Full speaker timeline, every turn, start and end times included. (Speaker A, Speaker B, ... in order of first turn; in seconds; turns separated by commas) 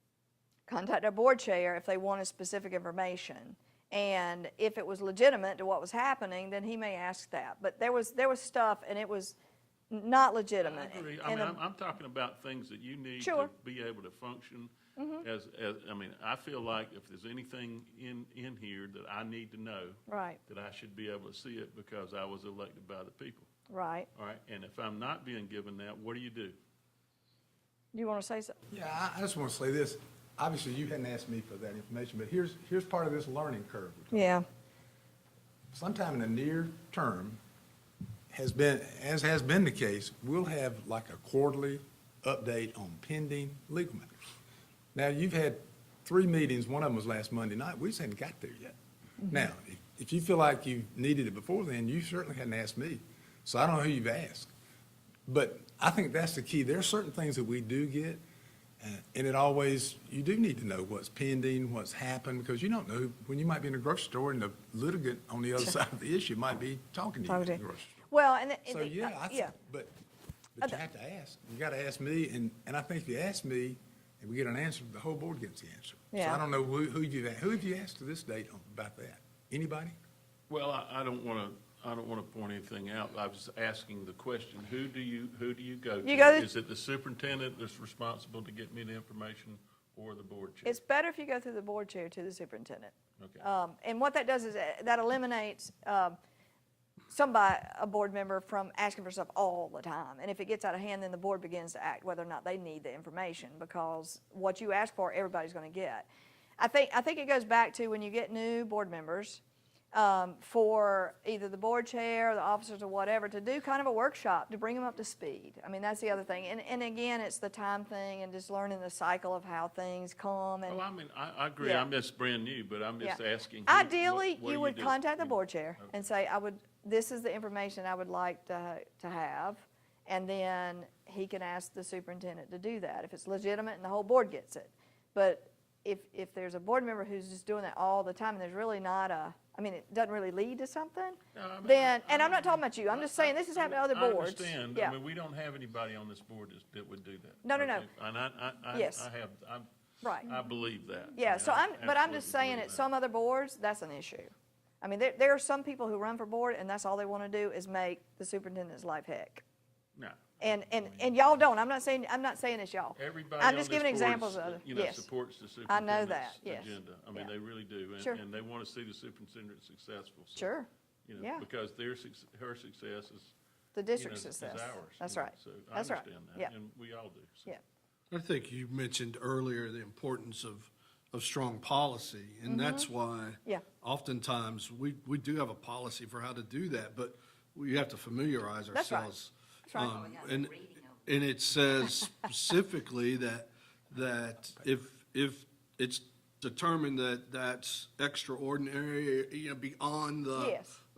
Speaker A: 0.7-9.3, Speaker A: 9.9-11.6, Speaker B: 10.6-23.5, Speaker A: 13.2-13.5, Speaker A: 15.0-15.2, Speaker A: 20.1-20.4, Speaker A: 23.7-24.1, Speaker B: 24.1-26.6, Speaker A: 27.9-28.6, Speaker C: 28.7-34.3, Speaker A: 34.1-34.4, Speaker C: 35.7-37.4, Speaker C: 38.3-44.1, Speaker C: 44.9-48.7, Speaker C: 49.3-54.5, Speaker C: 55.3-58.2, Speaker C: 58.8-68.0, Speaker A: 67.3-69.5, Speaker C: 68.7-69.9, Speaker C: 70.5-79.9, Speaker A: 76.1-76.4, Speaker B: 80.5-90.8, Speaker A: 86.0-86.5, Speaker A: 90.6-96.2, Speaker B: 93.2-93.5, Speaker A: 97.1-106.1, Speaker A: 106.6-109.4, Speaker A: 109.9-120.8, Speaker B: 120.7-125.9, Speaker A: 121.6-121.8, Speaker A: 123.0-144.9, Speaker B: 141.3-149.7, Speaker A: 147.4-147.8, Speaker A: 148.7-149.1, Speaker A: 150.0-150.3, Speaker B: 150.2-152.8, Speaker A: 151.2-159.4, Speaker B: 159.9-161.1, Speaker A: 160.4-165.1, Speaker B: 162.9-170.5, Speaker A: 165.7-167.3, Speaker A: 170.3-171.4, Speaker B: 171.1-173.3, Speaker A: 173.7-176.5, Speaker B: 173.9-177.5, Speaker D: 178.1-200.6, Speaker A: 182.4-182.9, Speaker A: 188.7-189.1, Speaker A: 189.7-189.9, Speaker A: 200.3-200.8